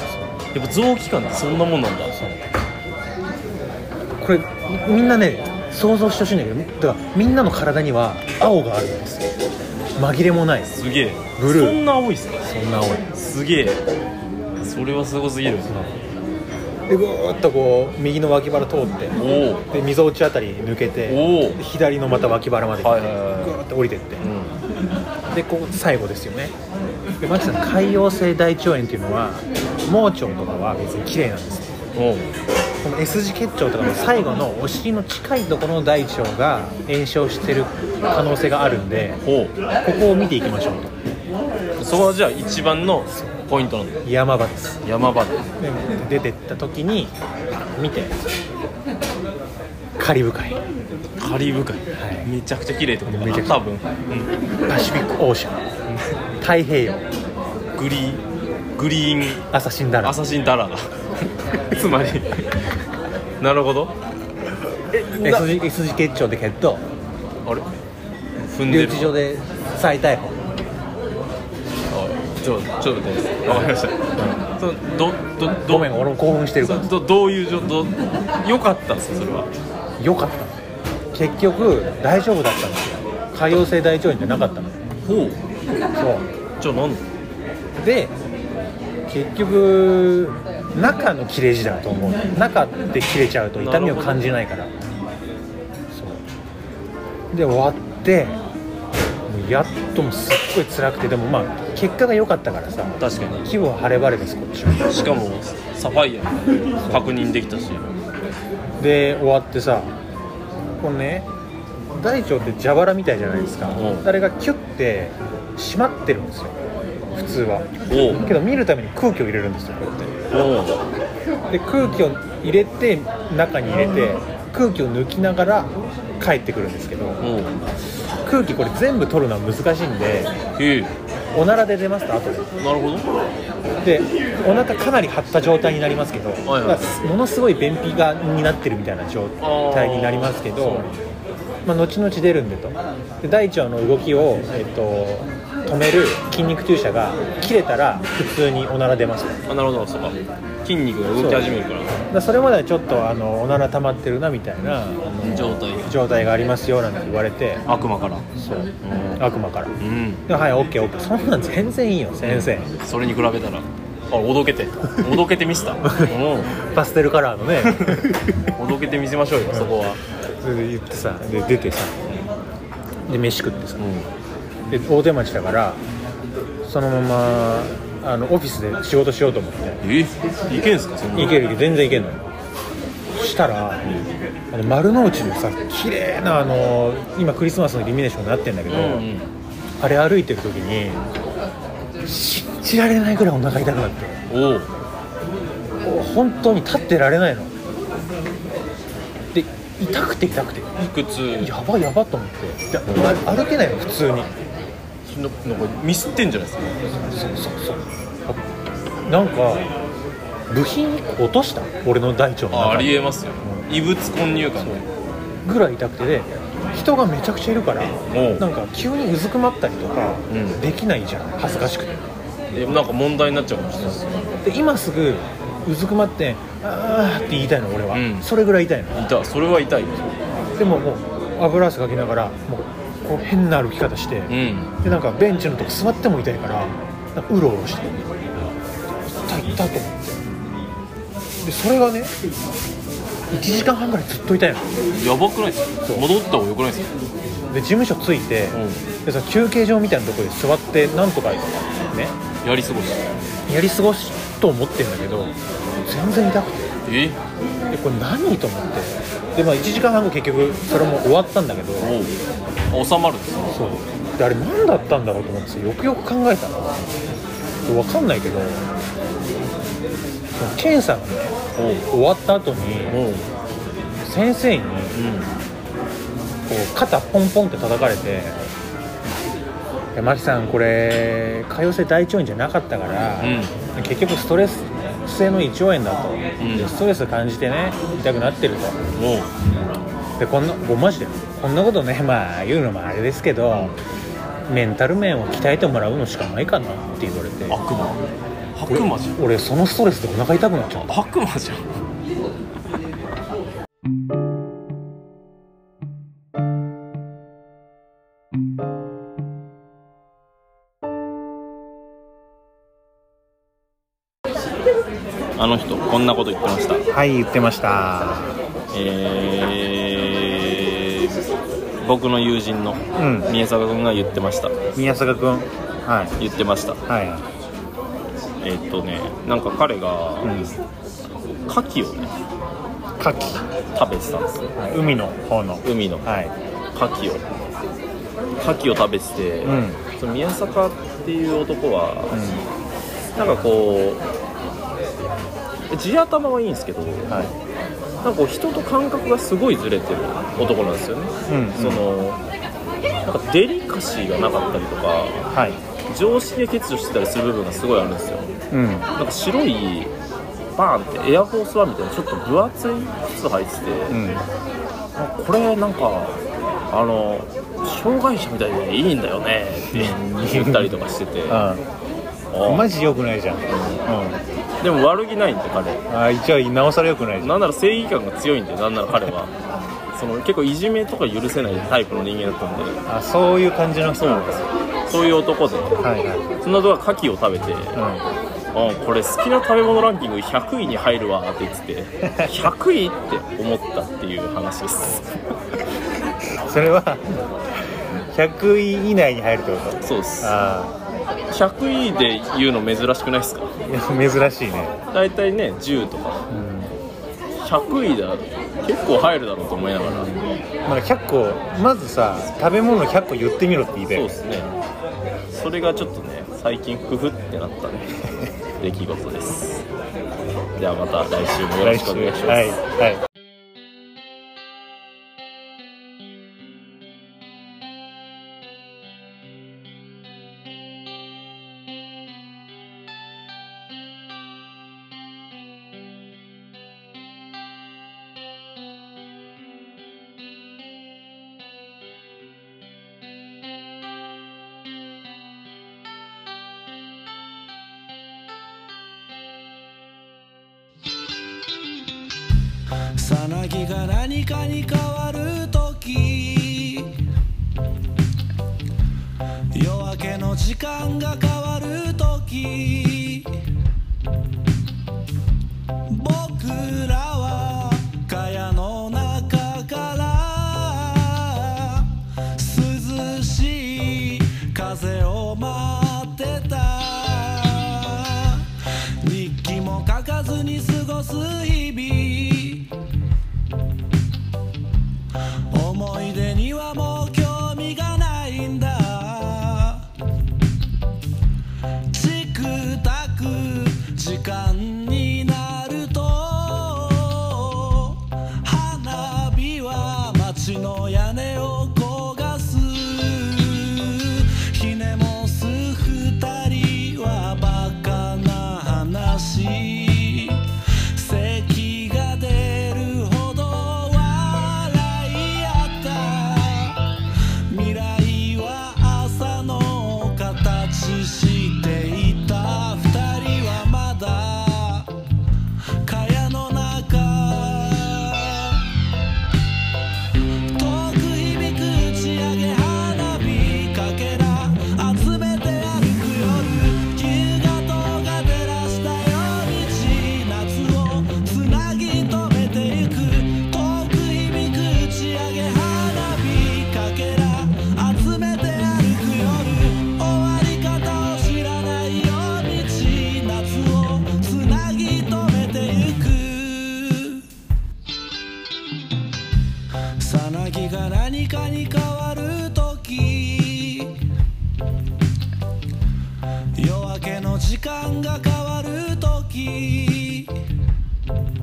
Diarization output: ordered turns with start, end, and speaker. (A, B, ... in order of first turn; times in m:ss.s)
0:00.5-0:02.2 A
0:02.1-0:02.4 B
0:04.2-0:09.3 B
0:10.0-0:10.7 B
0:10.7-0:12.5 A
0:11.4-0:11.8 B
0:12.4-0:13.1 B
0:13.1-0:13.8 A
0:14.6-0:15.8 A
0:15.6-0:16.0 B
0:16.9-0:19.2 B
0:19.2-0:19.7 A
0:19.7-0:24.2 B
0:21.1-0:21.6 A
0:22.8-0:23.6 A
0:24.2-0:24.6 A
0:25.3-0:26.5 B
0:27.2-0:31.8 B
0:31.9-0:32.3 A
0:32.8-0:39.2 B
0:39.2-0:39.5 A
0:39.8-0:40.9 B
0:41.8-0:44.0 A
0:44.0-0:44.8 B
0:44.8-0:45.4 A
0:45.6-0:48.2 B
0:50.0-0:50.6 B
0:51.2-0:54.3 A
0:51.9-0:52.3 B
0:53.1-0:53.6 B
0:54.6-0:55.6 B
0:56.4-0:57.0 B
0:57.7-0:58.2 A
0:58.8-0:59.4 A
0:59.5-1:00.2 B
1:00.0-1:02.7 A
1:03.4-1:03.9 A
1:04.9-1:05.5 A
1:05.1-1:06.8 B
1:08.4-1:09.2 A
1:08.7-1:10.6 B
1:11.9-1:15.9 A
1:13.5-1:14.4 B
1:15.7-1:16.9 B
1:16.6-1:19.5 A
1:20.0-1:20.6 B
1:21.1-1:24.8 B
1:25.0-1:25.4 A
1:25.9-1:26.3 B
1:26.6-1:27.0 A
1:27.8-1:28.1 B
1:29.1-1:34.7 B
1:33.6-1:34.2 A
1:35.9-1:36.2 B
1:37.3-1:38.4 B
1:39.3-1:45.2 B
1:43.0-1:43.5 A
1:44.9-1:47.9 A
1:48.8-1:49.9 B
1:50.8-1:51.3 B
1:51.9-1:56.6 B
1:53.7-1:54.1 A
1:57.1-2:00.2 B
1:57.9-1:58.2 A
2:00.3-2:00.8 A
2:01.5-2:07.2 B
2:07.2-2:07.6 A
2:08.2-2:10.3 B
2:10.6-2:10.9 A
2:11.3-2:12.5 B
2:12.6-2:13.1 A
2:13.8-2:20.9 B
2:16.4-2:16.9 A
2:19.4-2:21.0 A
2:21.6-2:29.4 B
2:29.5-2:32.0 A
2:31.2-2:37.6 B
2:35.2-2:35.9 A
2:37.6-2:38.3 A
2:38.4-2:39.7 B
2:38.8-2:39.2 A
2:39.8-2:40.2 A
2:40.3-2:42.7 B
2:42.2-2:46.5 A
2:45.8-2:48.2 B
2:47.6-2:50.0 A
2:49.5-2:49.8 B
2:50.4-2:52.0 B
2:53.0-2:53.8 B
2:53.8-2:54.1 A
2:54.7-2:55.8 B
2:56.6-2:59.8 B
2:59.8-3:01.4 A
3:01.1-3:02.2 B
3:03.1-3:03.9 B
3:04.5-3:09.1 B
3:08.7-3:09.3 A
3:09.8-3:11.0 B
3:12.0-3:14.2 B
3:14.3-3:14.7 A
3:15.8-3:17.5 B
3:19.3-3:20.7 B
3:20.8-3:21.5 A
3:21.4-3:24.3 B
3:25.0-3:26.8 A
3:27.0-3:28.4 B
3:29.0-3:29.7 B
3:30.5-3:33.7 B
3:32.5-3:34.9 A
3:35.4-3:42.0 B
3:38.1-3:38.4 A
3:40.3-3:40.6 A
3:42.5-3:44.3 A
3:44.4-3:49.1 B
3:47.9-3:48.3 A
3:48.9-3:50.2 A
3:50.6-3:58.2 B
3:54.3-3:54.7 A
3:59.0-4:00.2 B
4:01.4-4:02.1 B
4:03.3-4:04.7 B
4:04.9-4:06.9 A
4:07.5-4:12.2 B
4:08.5-4:08.8 A
4:12.4-4:13.1 A
4:13.5-4:16.7 B
4:16.8-4:17.2 A
4:17.7-4:22.0 B
4:21.8-4:22.2 A
4:22.7-4:23.7 A
4:23.5-4:26.8 B
4:27.6-4:28.7 B
4:30.3-4:31.4 B
4:31.6-4:31.9 A
4:31.9-4:33.0 B
4:32.9-4:33.3 A
4:34.0-4:35.0 B
4:34.9-4:35.3 A
4:36.5-4:38.5 B
4:39.9-4:48.8 B
4:43.2-4:43.5 A
4:46.4-4:46.7 A
4:48.9-4:49.4 A
4:50.2-4:53.7 B
4:54.4-4:57.6 B
4:57.5-4:58.0 A
4:58.5-4:59.2 A
4:58.7-5:00.9 B
5:00.7-5:01.6 A
5:15.4-5:16.8 A
5:16.9-5:18.4 B
5:18.7-5:21.2 A
5:21.8-5:24.7 A
5:23.0-5:23.3 B
5:24.7-5:26.2 B
5:26.2-5:26.8 A
5:26.9-5:27.3 B
5:28.4-5:30.4 A
5:30.2-5:30.6 B
5:31.4-5:32.1 A
5:33.0-5:33.5 B
5:33.7-5:34.6 A
5:34.6-5:36.3 B
5:35.6-5:36.1 A
5:36.7-5:37.2 A
5:38.4-5:42.2 A
5:39.4-5:39.8 B
5:42.1-5:42.4 B
5:43.2-5:44.0 A
5:45.7-5:47.2 A
5:47.1-5:47.3 B
5:48.0-5:52.2 A
5:51.3-5:51.8 B
5:53.0-5:55.3 A
5:55.3-5:55.6 B
5:55.9-5:58.3 A
5:58.5-5:58.9 B
5:59.0-5:59.9 A
6:00.5-6:04.0 A
6:03.9-6:04.2 B
6:05.0-6:11.4 A
6:09.7-6:10.8 B
6:11.3-6:11.6 B
6:12.3-6:12.7 A
6:12.4-6:14.2 B
6:13.5-6:13.8 A
6:14.6-6:15.8 A
6:15.9-6:17.4 B
6:17.2-6:19.3 A
6:19.9-6:22.8 A
6:22.9-6:24.4 B
6:24.0-6:25.8 A
6:25.8-6:26.2 B
6:26.4-6:27.8 A
6:27.7-6:28.0 B
6:28.5-6:35.2 A
6:32.1-6:32.5 B
6:36.4-6:37.3 B
6:38.0-6:40.8 B
6:39.8-6:40.4 A
6:41.3-6:43.5 A
6:43.6-6:44.8 B
6:44.9-6:46.3 A
6:46.3-6:46.7 B
6:47.4-6:50.2 A
6:49.8-6:54.2 B
6:53.9-6:54.5 A
6:55.3-6:59.6 A
7:00.6-7:02.6 A
7:01.6-7:03.1 B
7:33.0-7:37.0 C
7:39.5-7:43.4 C
7:45.9-7:58.5 C
7:59.0-8:02.7 C
8:05.5-8:09.9 C
8:11.9-8:44.9 C
8:45.8-8:48.7 C
8:50.5-9:17.2 C
9:20.0-9:24.0 C
9:26.5-9:30.5 C